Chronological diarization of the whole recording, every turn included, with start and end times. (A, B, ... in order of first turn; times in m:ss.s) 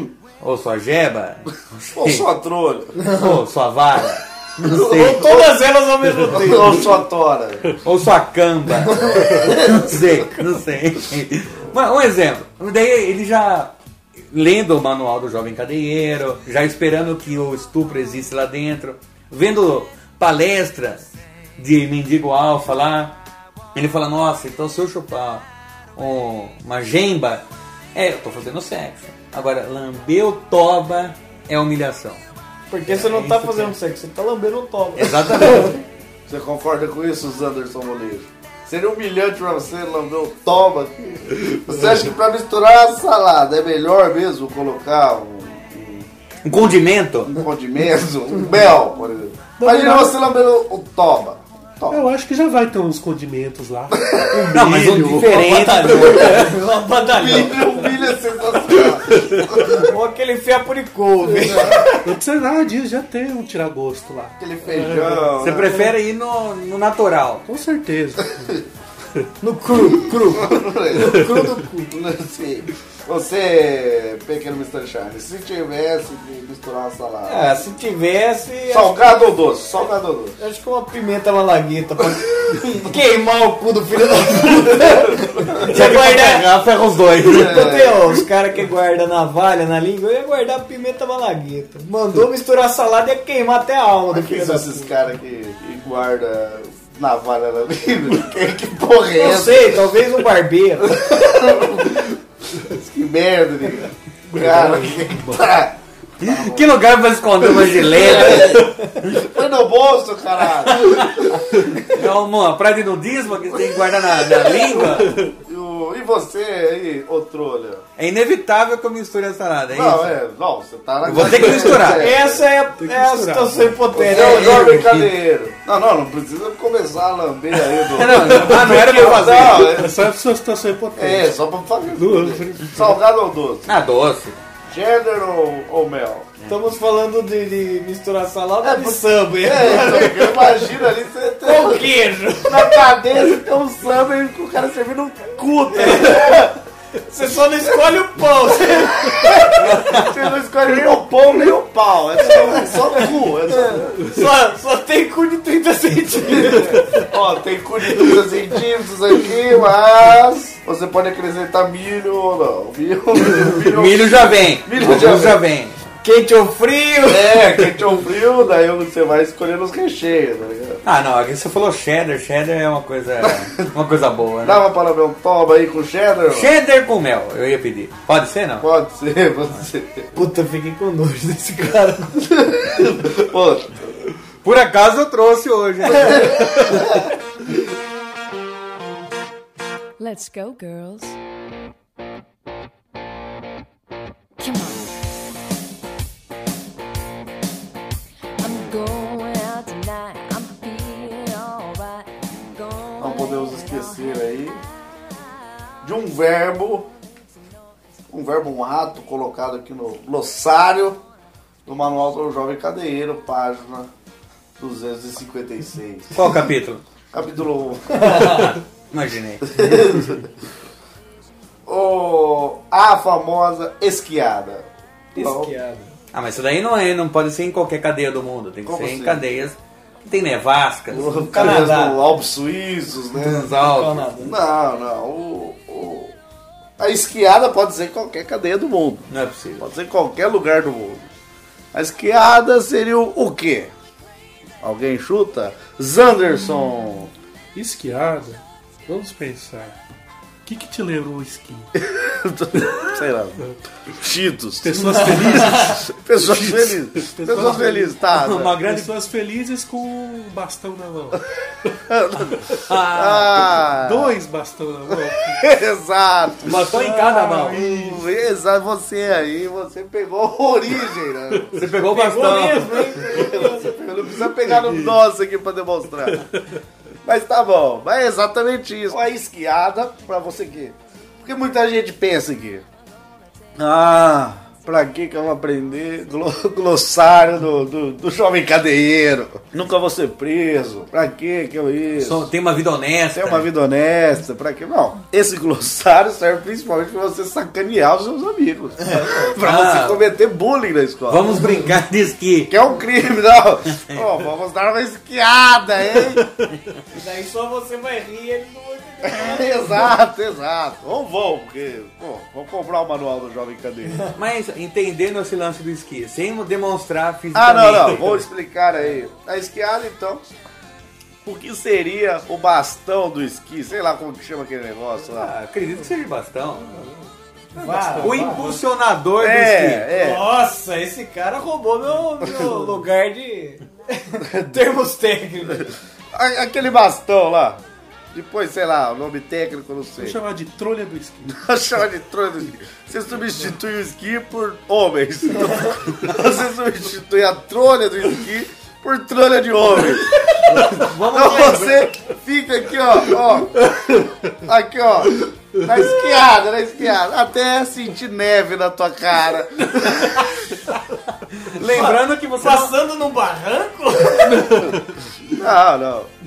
0:00.4-0:02.3 A
0:02.0-0:03.0 B
0:03.0-0:03.4 C
0:03.1-0:05.3 A
0:04.7-0:05.5 B
0:04.8-0:06.9 C
0:06.2-0:07.7 B
0:07.8-0:13.7 A
0:08.9-0:09.7 C
0:09.4-0:10.0 B
0:14.3-0:21.0 A
0:21.6-0:23.2 A
0:23.8-0:25.4 A
0:26.0-0:32.2 A
0:32.7-0:35.8 C
0:32.9-0:33.8 A
0:35.0-0:35.8 A
0:36.3-0:46.1 B
0:46.4-0:47.4 A
0:47.2-0:52.1 B
0:49.6-0:50.2 D
0:51.9-0:55.3 D
0:53.9-0:55.0 B
0:54.5-0:56.6 A
0:54.8-0:57.9 C
0:57.1-0:59.9 B
0:58.9-0:59.6 D
0:59.7-1:02.1 C
1:01.3-1:05.8 D
1:04.4-1:05.8 B
1:05.4-1:07.4 A
1:07.5-1:08.6 D
1:09.4-1:11.9 C
1:10.2-1:17.6 B
1:17.3-1:19.0 C
1:18.7-1:20.4 B
1:20.4-1:26.5 C
1:24.6-1:25.7 B
1:25.6-1:27.6 A
1:27.2-1:28.2 B
1:27.3-1:34.9 C
1:34.1-1:39.8 B
1:39.2-1:41.0 C
1:40.8-1:46.7 B
1:44.3-1:45.4 D
1:46.2-1:49.0 A
1:47.8-1:52.0 B
1:50.7-1:51.2 A
1:51.9-1:55.1 A
1:55.0-1:55.3 D
1:55.4-1:57.8 B
1:58.0-2:00.2 A
1:59.7-2:02.4 B
2:01.0-2:02.1 A
2:01.2-2:01.8 D
2:01.9-2:04.8 C
2:02.8-2:03.8 D
2:03.9-2:10.0 B
2:04.1-2:05.1 A
2:07.9-2:09.8 A
2:08.3-2:08.8 D
2:09.5-2:11.3 D
2:11.0-2:13.7 B
2:12.0-2:13.0 D
2:13.7-2:14.4 A
2:14.7-2:16.3 B
2:16.5-2:20.5 C
2:18.6-2:26.6 B
2:21.4-2:23.0 C
2:25.7-2:26.5 C
2:27.1-2:29.6 C
2:29.0-2:34.1 B
2:29.7-2:30.1 A
2:32.9-2:36.8 C
2:36.2-2:45.4 B
2:43.7-2:45.8 A
2:46.0-2:47.8 C
2:47.1-2:50.8 B
2:50.8-2:54.6 A
2:53.2-2:53.6 B
2:54.4-2:56.5 B
2:56.3-2:58.7 A
2:58.6-3:00.1 B
3:00.2-3:02.4 C
3:02.3-3:04.0 B
3:04.4-3:07.0 A
3:05.9-3:07.1 B
3:10.0-3:11.2 E
3:14.4-3:14.9 E
3:18.4-3:24.3 E
3:23.0-3:24.6 B
3:25.8-3:26.9 B
3:28.1-3:31.0 B
3:31.7-3:33.9 B
3:34.6-3:36.4 B
3:36.1-3:36.8 A
3:37.1-3:38.6 B
3:38.0-3:39.8 A
3:38.0-3:38.3 C
3:39.5-3:40.3 B
3:41.7-3:45.5 B
3:45.2-3:45.9 C
3:46.1-3:51.3 A
3:48.7-3:49.2 B
3:50.9-3:53.6 B
3:51.3-3:52.0 C
3:53.2-3:54.0 A
3:53.6-3:54.3 C
3:54.2-3:56.2 B
3:56.8-3:59.1 B
3:59.1-3:59.6 A
3:59.6-4:01.1 B
4:01.7-4:03.7 B
4:04.6-4:07.1 B
4:07.6-4:09.8 D
4:10.4-4:11.7 D
4:11.8-4:18.6 B
4:12.6-4:12.9 D
4:14.6-4:21.2 D
4:18.1-4:18.9 A
4:21.8-4:24.2 B
4:22.7-4:23.4 A
4:23.6-4:25.4 D
4:25.3-4:26.6 B
4:26.4-4:27.6 A
4:26.7-4:27.6 C
4:27.5-4:28.1 D
4:27.5-4:31.6 B
4:31.6-4:33.0 A
4:31.9-4:33.8 C
4:33.0-4:36.3 B
4:37.0-4:42.6 B
4:43.6-4:52.3 B
4:52.0-4:53.5 A
4:53.1-5:01.4 B
4:58.8-4:59.4 C
4:59.4-5:00.0 A
5:01.1-5:02.5 A
5:02.5-5:06.2 B
5:03.8-5:04.1 A
5:07.0-5:09.9 C
5:09.0-5:14.1 B
5:14.2-5:18.2 A
5:17.3-5:20.2 B
5:21.2-5:25.3 B
5:25.1-5:26.9 A
5:27.6-5:28.6 C
5:28.0-5:29.9 A
5:29.2-5:30.2 B
5:29.9-5:35.7 C
5:32.3-5:32.5 B
5:34.2-5:34.6 B
5:36.1-5:37.6 B
5:38.1-5:40.2 B
5:40.0-5:41.5 D
5:41.3-5:53.7 B
5:45.4-5:45.7 C
5:50.6-5:51.9 A
5:54.4-6:00.3 B
6:01.4-6:02.7 A
6:01.7-6:04.7 C
6:05.3-6:06.1 B